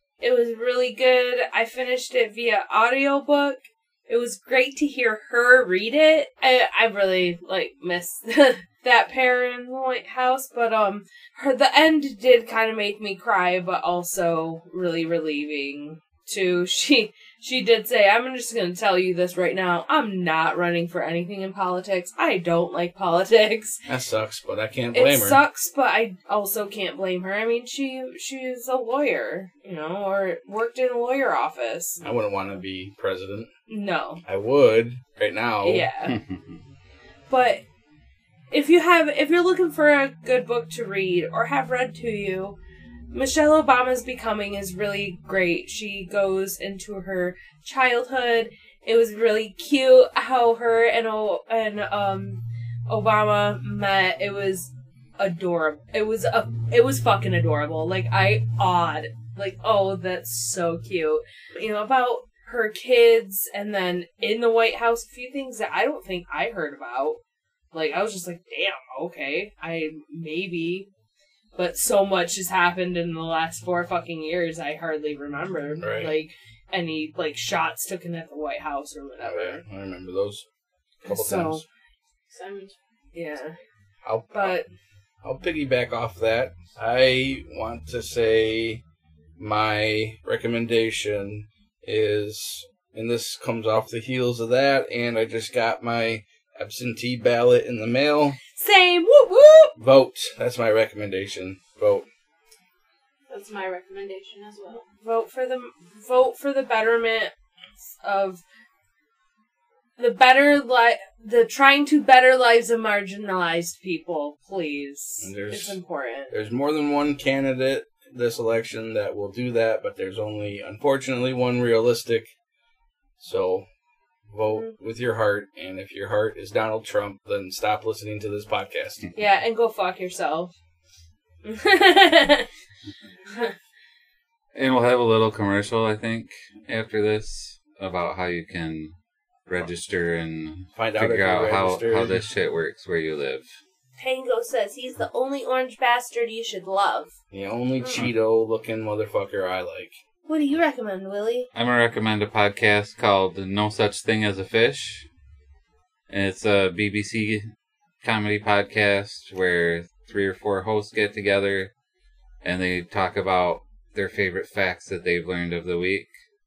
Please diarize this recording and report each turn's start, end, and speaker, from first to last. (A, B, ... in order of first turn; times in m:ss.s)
0:00.2-0:23.8 A
0:23.9-0:25.4 B
0:24.9-0:32.0 A
0:32.0-0:33.5 B
0:33.7-0:34.2 A
0:34.2-0:35.9 B
0:35.6-0:36.2 A
0:37.3-0:37.6 A
0:38.5-0:42.6 A
0:43.1-1:07.2 A
1:07.7-1:10.9 A
1:11.5-1:19.6 A
1:15.8-1:16.1 B
1:19.2-1:20.4 B
1:21.0-1:21.6 B
1:21.0-1:21.6 A
1:22.3-1:22.8 C
1:23.1-1:23.6 A
1:24.0-1:24.5 B
1:24.3-1:24.7 A
1:25.2-1:28.8 B
1:29.4-1:38.4 B
1:38.5-1:39.7 A
1:39.8-1:42.0 B
1:43.3-1:44.8 C
1:45.0-1:47.3 A
1:48.0-1:48.4 A
1:50.0-1:56.3 A
1:55.2-1:55.8 B
1:56.3-2:02.3 B
2:03.2-2:03.6 B
2:04.3-2:09.1 B
2:09.1-2:10.5 A
2:11.4-2:12.5 A
2:14.5-2:18.9 D
2:19.5-2:23.5 D
2:20.8-2:22.2 B
2:24.0-2:27.1 A
2:27.3-2:29.9 B
2:27.8-2:28.1 A
2:30.3-2:31.5 A
2:31.5-2:35.1 D
2:36.1-2:37.5 D
2:38.0-2:41.7 D
2:42.4-2:46.1 D